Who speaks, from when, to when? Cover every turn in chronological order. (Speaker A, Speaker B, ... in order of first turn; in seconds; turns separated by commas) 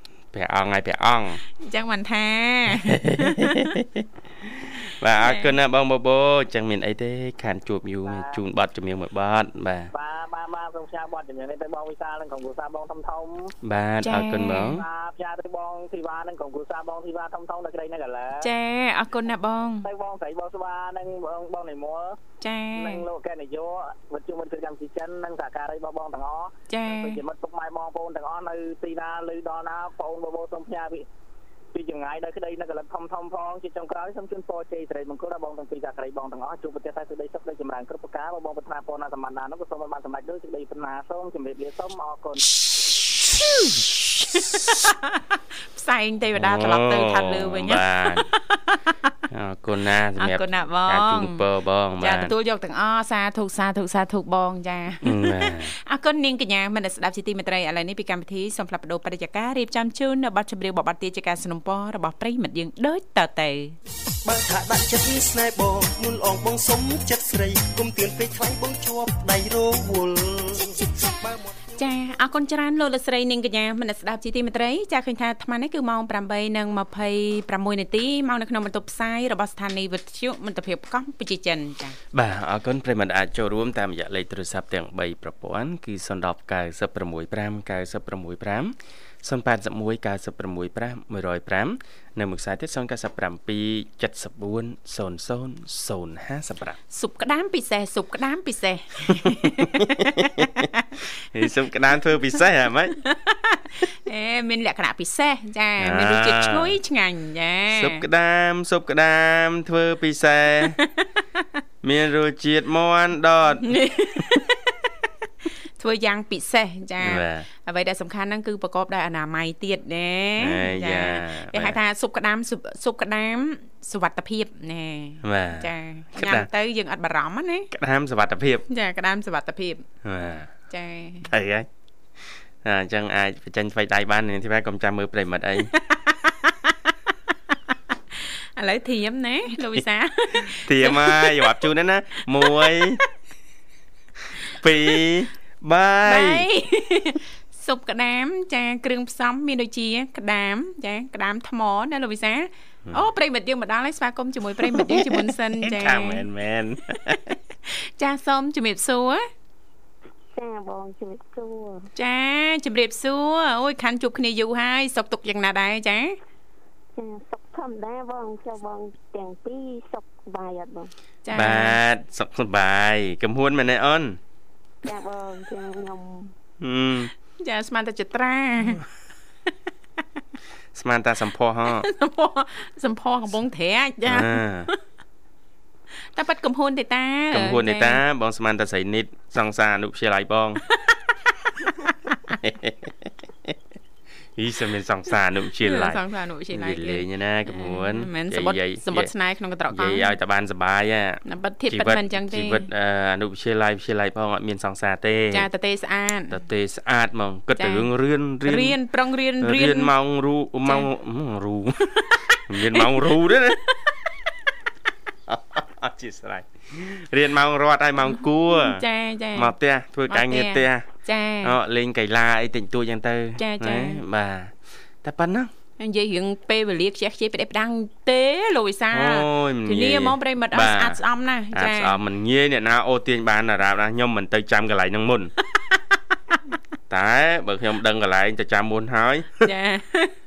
Speaker A: 0.3-1.4, Speaker B: 1.6-3.7, Speaker A: 2.8-9.9, Speaker B: 5.2-5.5, Speaker C: 8.1-8.4, Speaker C: 9.9-13.5, Speaker A: 13.6-14.8, Speaker B: 14.0-14.7, Speaker C: 14.8-18.5, Speaker B: 18.4-19.9, Speaker C: 19.8-22.1, Speaker B: 22.4-23.0, Speaker C: 22.8-31.0, Speaker B: 26.7-27.2, Speaker C: 31.7-42.4, Speaker B: 42.4-49.1, Speaker A: 46.4-48.3, Speaker A: 49.3-52.3, Speaker B: 50.2-51.4, Speaker B: 52.0-63.8, Speaker A: 55.0-55.7, Speaker D: 64.2-71.9, Speaker B: 71.8-82.0, Speaker A: 82.1-96.8, Speaker B: 96.9-100.9, Speaker A: 100.0-100.5, Speaker A: 101.3-103.0, Speaker B: 103.0-108.0, Speaker A: 105.8-106.7, Speaker A: 107.7-110.8, Speaker A: 111.8-113.7, Speaker B: 113.6-114.7, Speaker B: 115.8-127.7, Speaker A: 117.0-117.5, Speaker A: 120.4-121.8, Speaker A: 125.2-126.5, Speaker A: 127.7-128.6, Speaker B: 128.7-129.8, Speaker A: 130.0-130.5, Speaker B: 130.7-131.3, Speaker A: 131.2-131.7, Speaker A: 132.2-135.7, Speaker B: 135.7-136.9, Speaker B: 138.1-141.5, Speaker A: 140.5-143.0, Speaker B: 142.4-142.8, Speaker A: 144.6-146.5, Speaker B: 146.1-156.2, Speaker A: 154.6-157.3, Speaker B: 157.7-159.2, Speaker E: 160.3-161.9, Speaker B: 161.9-166.2, Speaker E: 166.9-170.9, Speaker B: 171.2-171.8, Speaker A: 171.3-174.2, Speaker E: 174.8-176.3, Speaker A: 176.6-177.1, Speaker B: 177.4-178.8, Speaker A: 180.7-181.9, Speaker B: 181.7-184.7, Speaker A: 184.1-184.7, Speaker B: 186.1-188.0, Speaker A: 187.3-190.6, Speaker B: 190.7-191.0, Speaker B: 191.6-192.4, Speaker A: 192.4-192.9, Speaker A: 194.3-199.1, Speaker B: 195.6-200.1, Speaker A: 199.7-205.5, Speaker B: 201.2-202.7, Speaker B: 205.3-206.4, Speaker A: 206.3-208.8, Speaker B: 207.6-207.9, Speaker B: 208.4-209.9, Speaker A: 209.4-213.6, Speaker B: 212.0-212.9, Speaker A: 215.3-218.8, Speaker B: 218.1-219.5, Speaker A: 219.3-220.8, Speaker B: 220.1-221.5, Speaker A: 221.4-225.5, Speaker B: 223.4-224.0, Speaker B: 225.8-232.0, Speaker A: 228.9-231.0, Speaker A: 231.5-235.3, Speaker A: 236.9-239.5, Speaker B: 239.4-240.1